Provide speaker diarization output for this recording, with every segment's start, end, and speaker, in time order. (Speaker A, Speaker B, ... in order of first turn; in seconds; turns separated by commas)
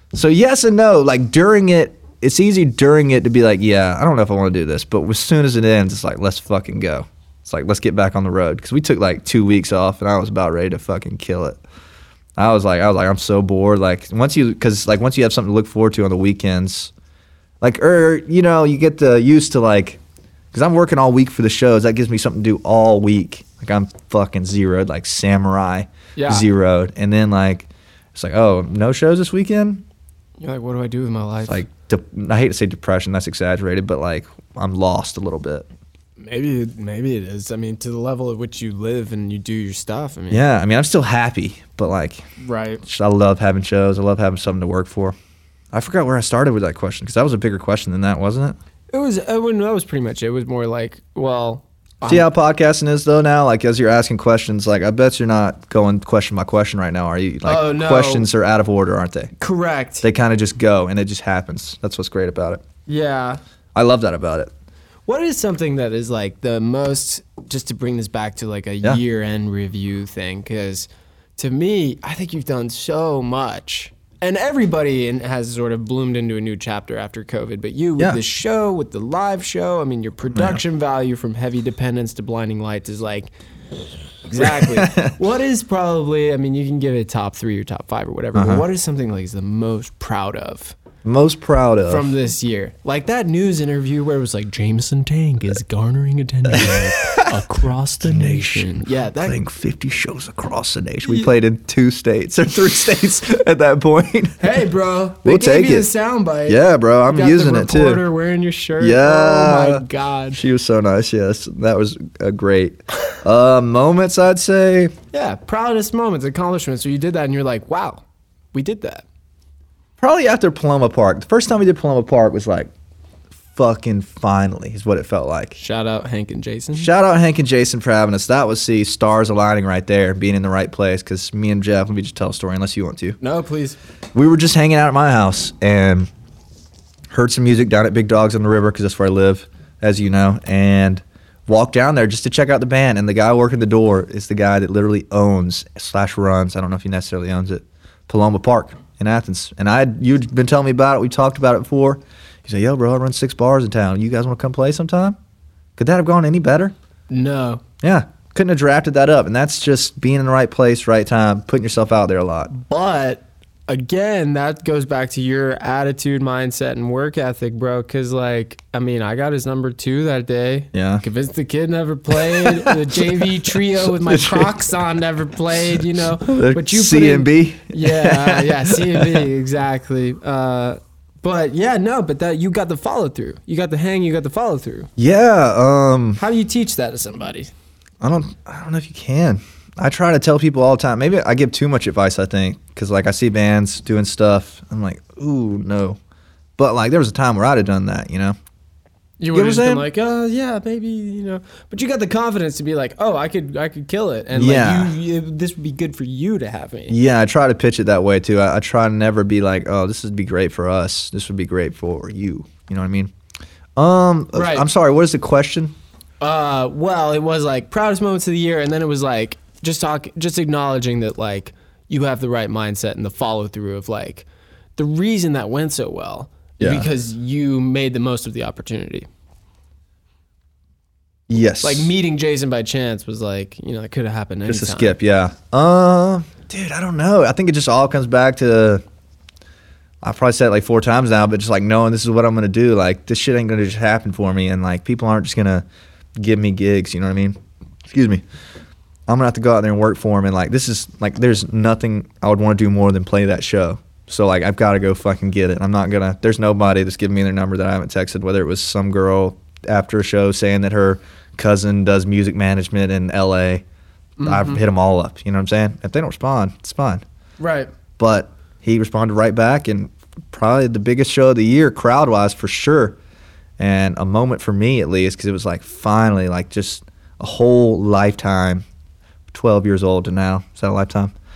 Speaker A: 0.1-11.6, Speaker A: 12.4-16.9, Speaker A: 17.6-20.0, Speaker A: 20.5-29.8, Speaker B: 26.1-26.4, Speaker B: 30.4-31.6, Speaker A: 31.5-35.6, Speaker B: 36.2-40.4, Speaker A: 40.3-42.2, Speaker B: 42.4-42.8, Speaker A: 42.8-45.1, Speaker A: 45.7-48.5, Speaker B: 48.9-52.3, Speaker A: 52.0-59.3, Speaker B: 57.4-58.3, Speaker B: 59.4-60.0, Speaker A: 60.0-62.6, Speaker B: 62.9-63.4, Speaker A: 63.7-64.5, Speaker B: 65.1-83.3, Speaker A: 80.3-80.6, Speaker B: 84.3-90.8, Speaker A: 84.3-85.1, Speaker A: 88.3-88.6, Speaker A: 91.0-92.1, Speaker B: 91.9-99.4, Speaker A: 96.5-97.4, Speaker A: 98.0-104.5, Speaker B: 104.4-110.4, Speaker A: 105.2-105.9, Speaker A: 106.5-108.0, Speaker A: 108.8-114.9, Speaker B: 115.1-119.0, Speaker A: 120.0-122.7, Speaker A: 123.5-125.6, Speaker B: 125.6-126.9, Speaker A: 126.8-133.2, Speaker B: 133.2-133.8, Speaker A: 134.1-136.1, Speaker A: 137.1-155.2, Speaker A: 155.8-156.7, Speaker B: 157.1-157.6, Speaker A: 157.8-162.5, Speaker B: 162.5-184.9, Speaker A: 170.7-171.0, Speaker A: 172.2-173.2, Speaker A: 174.0-174.5, Speaker A: 176.1-179.2, Speaker A: 185.0-186.2, Speaker B: 186.2-187.5, Speaker A: 188.0-196.0, Speaker A: 196.6-198.4, Speaker B: 199.2-207.0, Speaker A: 199.3-199.9, Speaker A: 204.3-204.9, Speaker A: 206.9-213.1, Speaker A: 213.8-215.7, Speaker B: 214.3-214.7, Speaker B: 216.2-224.2, Speaker B: 224.8-229.1, Speaker A: 226.6-226.9, Speaker A: 231.3-231.9, Speaker B: 231.6-234.9, Speaker A: 234.5-238.8, Speaker A: 240.0-245.6, Speaker A: 246.2-248.2, Speaker A: 249.1-263.6, Speaker B: 264.2-264.6, Speaker A: 264.2-267.0, Speaker B: 267.4-267.7, Speaker A: 268.0-272.9, Speaker A: 273.6-278.6, Speaker A: 279.3-281.1